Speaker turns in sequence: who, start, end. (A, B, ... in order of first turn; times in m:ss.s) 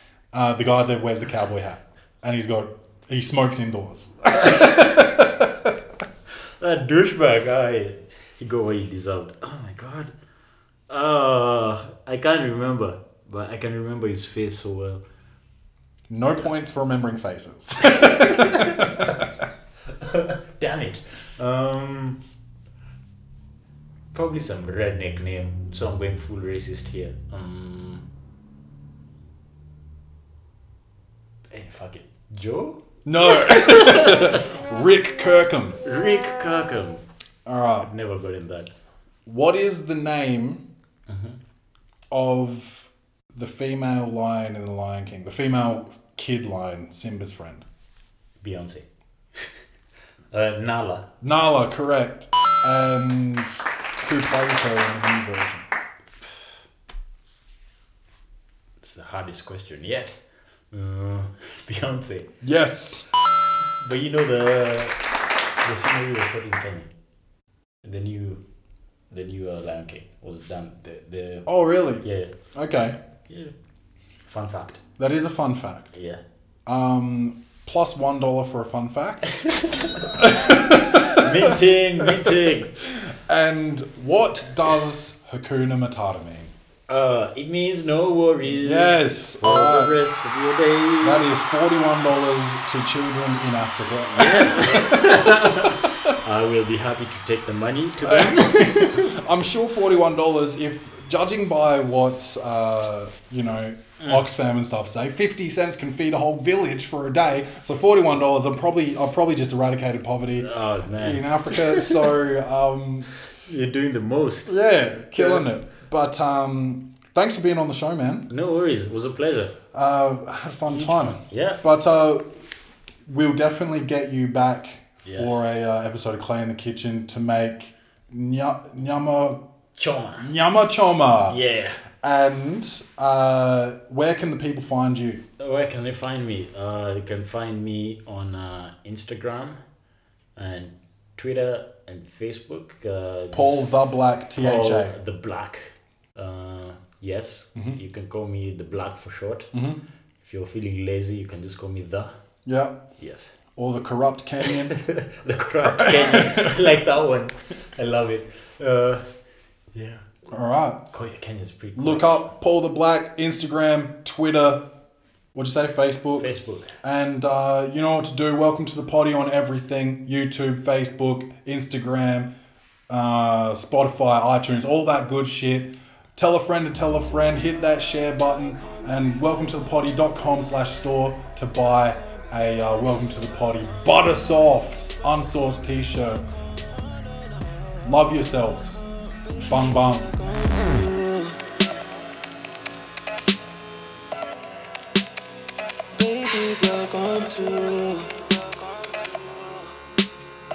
0:00.3-0:05.7 A
0:04.3-0:05.2 B
0:06.6-0:10.1 B
0:10.9-0:15.0 B
0:16.1-0:19.3 A
0:18.0-0:19.2 B
0:19.9-0:22.2 B
0:24.1-0:28.0 B
0:31.5-0:34.5 B
0:33.0-0:35.8 A
0:35.8-0:37.0 B
0:37.4-0:37.9 A
0:37.8-0:38.7 B
0:39.2-0:40.6 A
0:41.1-0:41.4 B
0:42.1-0:47.6 A
0:48.4-0:49.5 B
0:50.3-0:51.1 B
0:51.2-0:55.6 A
0:58.8-1:00.2 B
1:00.7-1:02.3 B
1:02.4-1:03.1 A
1:03.8-1:05.0 B
1:05.6-1:06.9 B
1:07.8-1:08.4 B
1:09.1-1:11.5 B
1:11.4-1:13.0 A
1:12.0-1:12.3 B
1:13.3-1:13.5 B
1:14.2-1:14.8 B
1:15.0-1:15.9 A
1:15.9-1:16.2 B
1:16.6-1:26.5 A
1:19.3-1:22.7 B
1:26.9-1:31.3 B
1:28.4-1:30.0 A
1:31.0-1:36.1 A
1:34.1-1:39.1 B
1:38.0-1:53.1 A
1:44.0-1:44.3 B
1:50.4-1:52.1 B
1:53.3-1:54.5 B
1:54.5-1:58.3 A
1:55.2-1:55.4 B
1:58.3-1:59.5 B
1:59.7-2:02.3 A
2:00.7-2:01.6 B
2:03.0-2:09.4 A
2:05.0-2:05.4 B
2:09.8-2:10.3 B
2:10.2-2:11.4 A
2:11.3-2:11.8 B
2:12.0-2:15.2 A
2:15.4-2:19.6 B
2:20.4-2:23.6 B
2:23.3-2:25.0 A
2:24.4-2:29.5 B
2:29.5-2:29.8 A
2:30.2-2:32.1 B
2:32.4-2:32.8 A
2:33.0-2:33.3 B
2:33.6-2:34.8 A
2:34.4-2:39.0 B
2:35.6-2:36.7 A
2:39.7-2:40.0 B
2:40.3-2:40.8 A
2:40.9-2:42.3 B
2:41.8-2:44.7 A
2:45.3-2:46.3 A
2:46.2-2:46.8 B
2:46.8-2:52.3 A
2:52.9-3:06.2 A
3:06.8-3:07.7 C
3:07.8-3:08.8 A
3:09.0-3:11.4 C
3:09.4-3:10.1 A
3:15.9-3:19.8 C